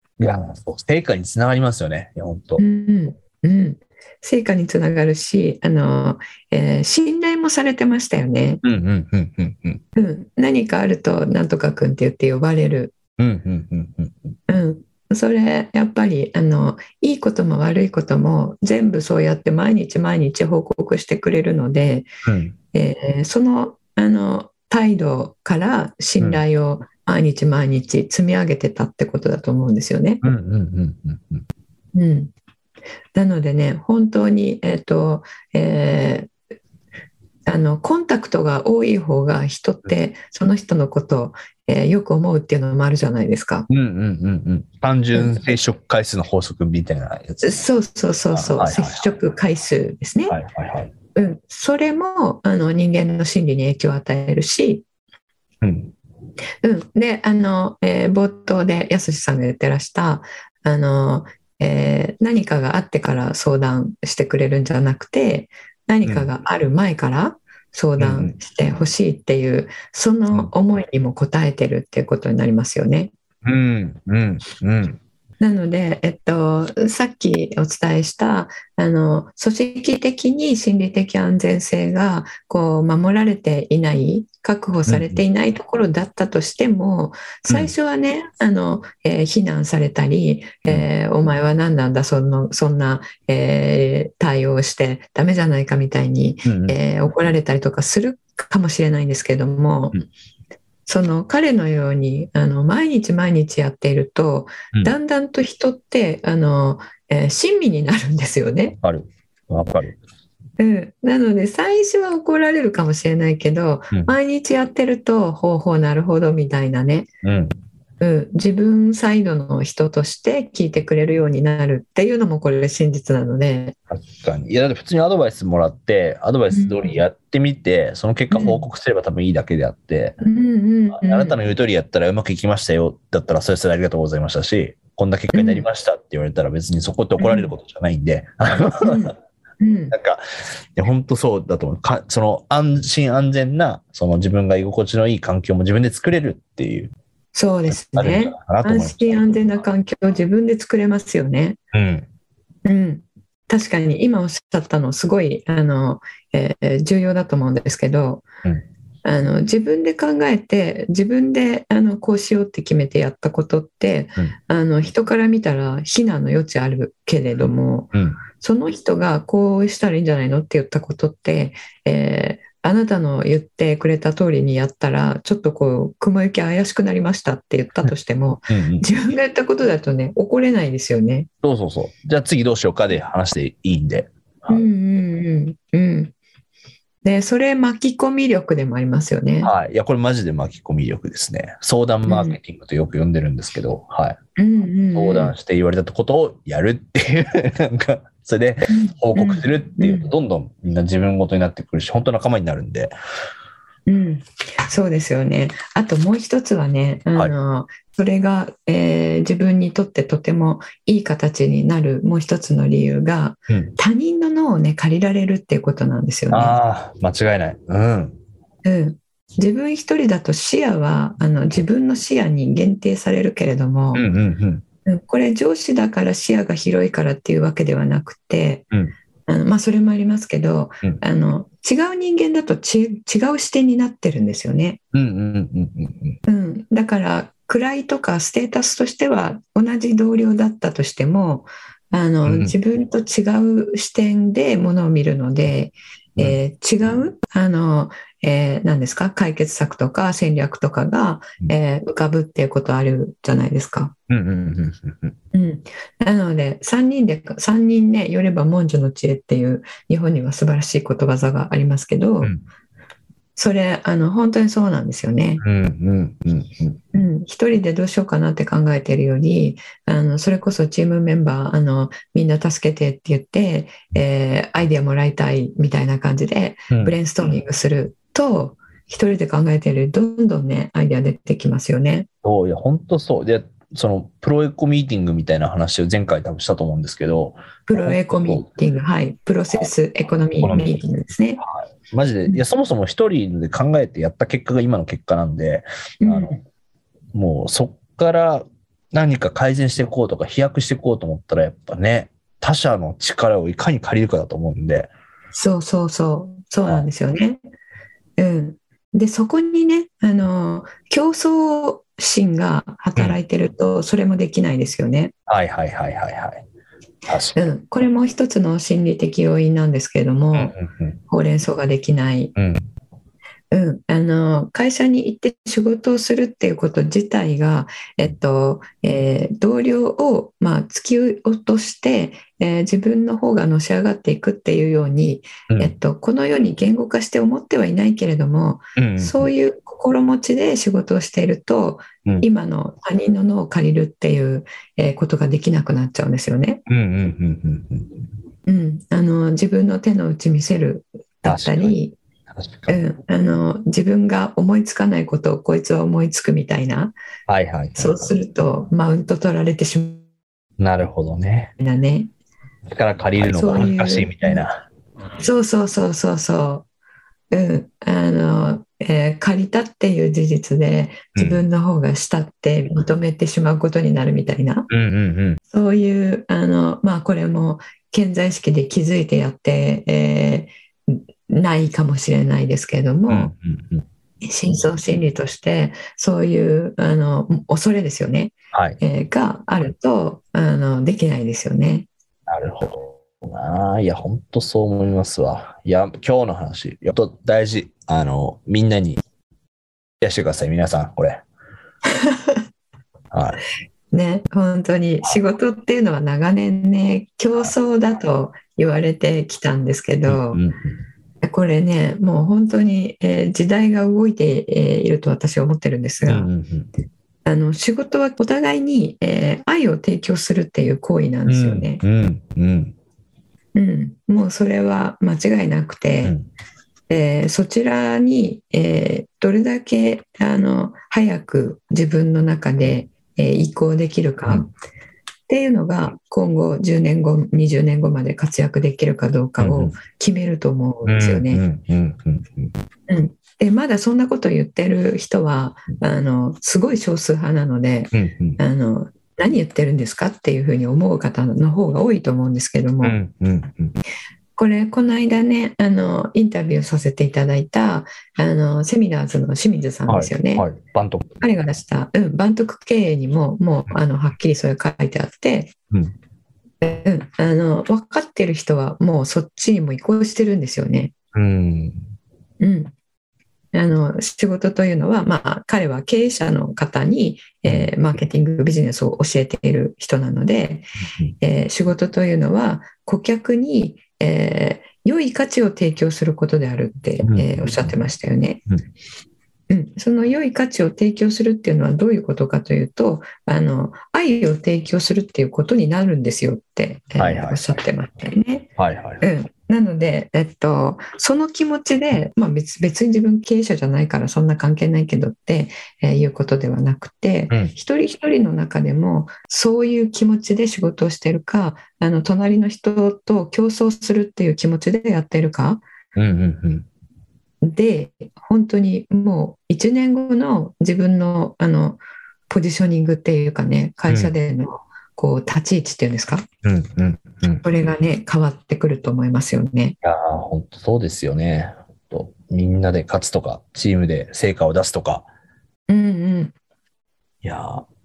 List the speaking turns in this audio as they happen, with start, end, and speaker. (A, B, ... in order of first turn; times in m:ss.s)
0:00.2-0:02.6 A
0:02.6-0:08.6 B
0:08.6-0:09.8 A
0:09.9-0:12.9 B
0:13.2-0:14.3 A
0:14.5-0:22.1 B
0:22.2-0:22.5 A
0:22.7-0:30.2 B
0:30.2-0:31.4 A
0:31.9-0:32.3 B
0:33.1-0:36.3 B
0:37.4-0:43.7 B
0:43.7-0:47.6 A
0:47.4-0:50.4 B
0:48.3-0:49.1 A
0:50.3-0:50.9 A
0:51.1-0:54.8 B
0:55.6-0:55.9 A
0:56.6-1:13.1 B
1:06.0-1:06.3 A
1:08.0-1:08.3 A
1:13.4-1:15.0 A
1:15.4-1:40.0 B
1:24.9-1:25.2 A
1:36.4-1:36.8 A
1:40.8-1:48.8 B
1:48.8-1:50.0 A
1:50.6-1:57.1 B
1:57.2-1:57.5 A
1:58.0-2:03.8 B
2:03.9-2:10.2 A
2:06.5-2:06.9 B
2:08.3-2:08.6 B
2:10.2-2:11.4 B
2:10.9-2:19.1 A
2:15.3-2:15.6 B
2:17.2-2:17.5 B
2:18.8-2:19.9 B
2:19.9-2:20.2 A
2:20.7-2:26.9 A
2:27.3-2:31.6 B
2:27.7-2:29.6 A
2:31.7-2:32.1 A
2:32.6-2:38.2 B
2:39.0-3:01.3 B
2:47.4-2:48.2 A
2:58.5-2:58.8 A
3:01.4-3:04.6 A
3:04.5-3:06.1 B
3:07.0-3:09.5 B
3:09.4-3:14.2 A
3:12.1-3:12.4 B
3:14.4-3:15.3 B
3:14.9-3:22.9 A
3:18.7-3:20.1 B
3:23.9-3:36.6 B
3:36.3-3:38.2 A
3:38.6-3:44.0 B
3:43.9-3:44.6 A
3:44.8-3:48.6 B
3:49.3-3:54.8 B
3:54.9-3:56.2 A
3:56.2-4:13.9 B
4:02.2-4:02.5 A
4:14.1-4:15.1 A
4:15.3-4:22.3 B
4:23.4-4:25.4 B
4:25.4-4:26.8 A
4:26.9-4:42.1 B
4:36.7-4:37.0 A
4:42.2-4:48.4 A
4:47.7-4:51.4 B
4:50.4-4:50.7 A
4:51.4-4:56.4 A
4:56.0-4:56.4 B
4:57.1-5:04.9 A
5:05.3-5:07.4 B
5:08.2-5:15.1 B
5:15.3-5:16.4 A
5:17.1-5:17.4 A
5:17.3-5:20.5 B
5:20.3-5:21.0 A
5:21.1-5:22.3 B
5:22.4-5:22.6 A
5:23.5-5:46.6 B
5:38.8-5:39.3 A
5:46.7-5:48.1 A
5:48.5-5:52.0 B
5:51.2-5:51.7 A
5:52.3-5:52.8 A
5:52.7-5:56.9 B
5:57.3-5:58.1 A
5:57.8-6:00.0 B
6:00.6-6:01.5 A
6:01.6-6:02.1 B
6:02.7-6:04.6 A
6:03.2-6:04.4 B
6:05.2-6:06.6 B
6:07.3-6:14.7 B
6:11.2-6:11.4 A
6:14.7-6:15.4 A
6:15.5-6:23.3 B
6:23.1-6:23.8 A
6:24.2-6:31.9 B
6:28.5-6:28.8 A
6:32.3-6:39.0 A
6:40.0-6:41.2 A
6:42.0-6:42.4 B
6:43.1-6:43.4 A
6:43.9-6:50.4 B
6:50.1-6:50.8 A
6:51.2-6:56.3 B
6:56.1-6:56.7 A
6:57.2-7:01.8 B
7:01.3-7:02.7 A
7:03.5-7:06.1 B
7:06.9-7:14.5 B
7:15.3-7:21.4 B
7:19.4-7:19.8 A
7:20.8-7:22.5 A
7:22.9-7:33.0 B
7:27.9-7:28.4 A
7:32.8-7:33.8 A
7:34.4-7:40.5 B
7:39.8-7:41.1 A
7:41.2-7:45.5 B
7:46.6-7:50.9 B
7:51.1-7:51.8 A
7:52.4-7:52.7 B
7:53.5-8:00.7 B
7:57.4-7:57.7 A
8:01.2-8:08.4 B
8:07.0-8:07.7 A
8:09.5-8:18.5 B
8:17.0-8:17.4 A
8:18.6-8:19.0 A
8:19.0-8:35.6 B
8:36.0-8:36.6 A
8:37.4-8:46.2 B
8:43.9-8:44.1 A
8:46.4-8:47.4 A
8:47.4-8:49.8 B
8:49.8-8:55.1 A
8:55.7-8:56.3 B
8:57.2-8:57.6 A